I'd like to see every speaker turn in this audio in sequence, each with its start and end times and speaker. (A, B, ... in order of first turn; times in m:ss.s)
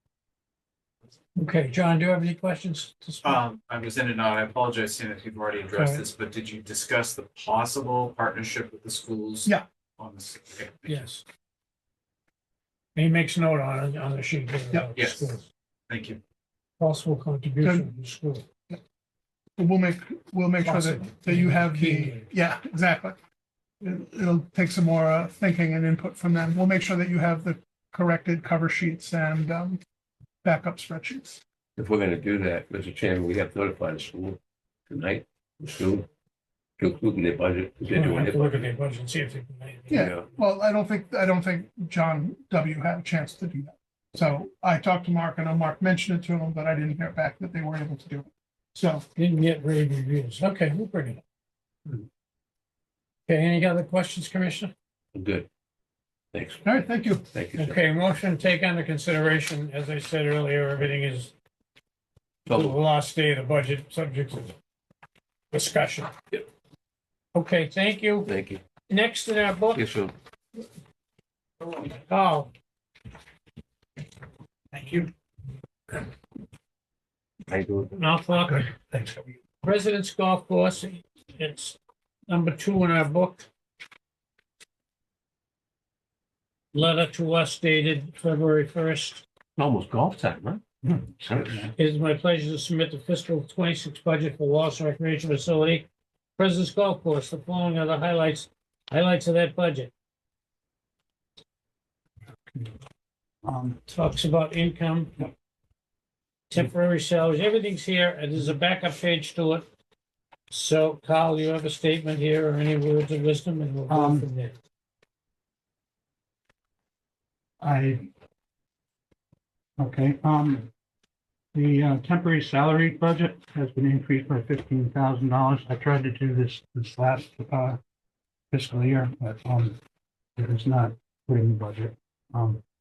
0:01.4-0:03.4 A
0:03.2-0:11.1 B
0:05.7-0:06.0 A
0:10.8-0:11.2 A
0:12.9-0:15.4 A
0:14.9-0:15.3 B
0:15.9-0:16.2 B
0:16.8-0:18.4 A
0:17.6-0:17.9 C
0:19.6-0:23.2 C
0:20.6-0:22.3 A
0:23.8-0:29.8 C
0:30.4-0:31.4 C
0:31.8-0:34.4 D
0:34.9-0:36.1 D
0:36.8-0:38.6 D
0:37.9-0:40.1 A
0:39.9-0:49.0 C
0:39.9-0:40.3 D
0:49.2-0:51.2 A
0:53.3-0:54.7 A
0:55.1-0:55.5 D
0:56.3-0:56.6 D
0:56.6-0:57.2 C
0:57.3-0:57.8 D
0:57.6-1:01.3 A
1:02.5-1:02.8 D
1:02.5-1:04.5 A
1:05.5-1:06.1 A
1:07.3-1:08.3 A
1:08.2-1:08.6 D
1:08.9-1:09.8 A
1:09.7-1:10.1 D
1:11.8-1:12.5 A
1:14.7-1:15.1 E
1:17.5-1:18.0 D
1:17.9-1:18.7 A
1:18.5-1:19.3 E
1:19.6-1:23.5 A
1:26.7-1:29.2 A
1:29.6-1:30.6 D
1:30.8-1:31.7 E
1:31.3-1:31.7 D
1:31.8-1:39.9 A
1:42.5-1:42.7 E
1:43.4-1:43.8 E
1:43.9-1:45.2 A
1:46.5-1:49.7 A
1:50.5-1:54.5 A
1:53.9-1:54.3 E
1:57.6-1:58.1 E
1:59.8-2:00.7 E
2:01.5-2:07.8 E
2:08.5-2:09.8 E
2:10.4-2:12.6 E